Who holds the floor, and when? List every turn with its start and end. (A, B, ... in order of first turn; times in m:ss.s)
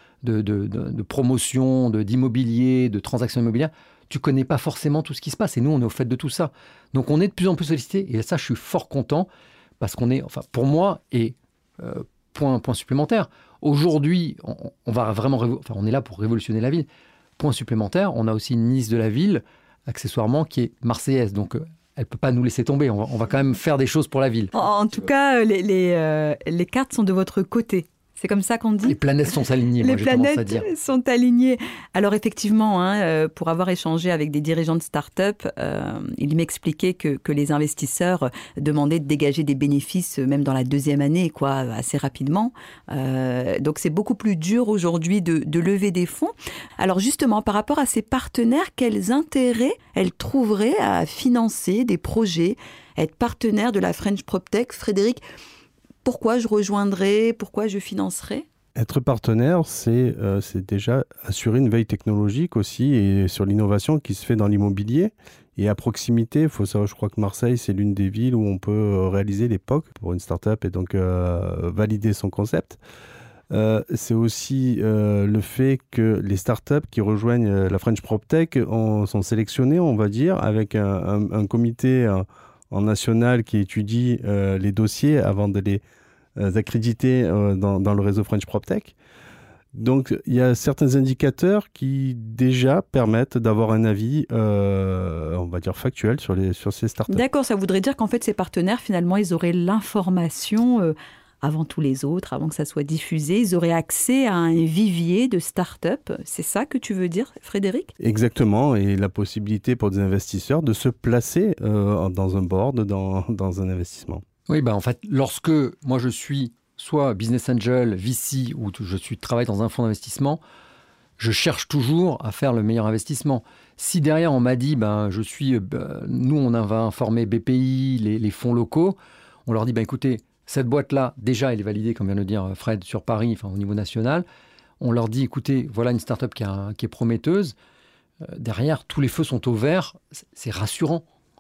0:00.2-0:09.3 A
0:09.8-0:16.9 A
0:17.4-0:24.5 A
0:24.5-0:29.0 B
0:28.8-0:30.6 A
0:29.8-0:55.2 B
0:56.0-0:58.4 B
0:58.8-1:12.8 C
1:13.5-1:25.8 C
1:26.4-1:29.0 C
1:29.8-1:37.2 C
1:37.1-1:47.9 B
1:48.0-1:54.2 C
1:54.5-2:00.4 A
2:01.2-2:14.2 A
2:14.8-2:17.5 A
2:18.2-2:21.0 A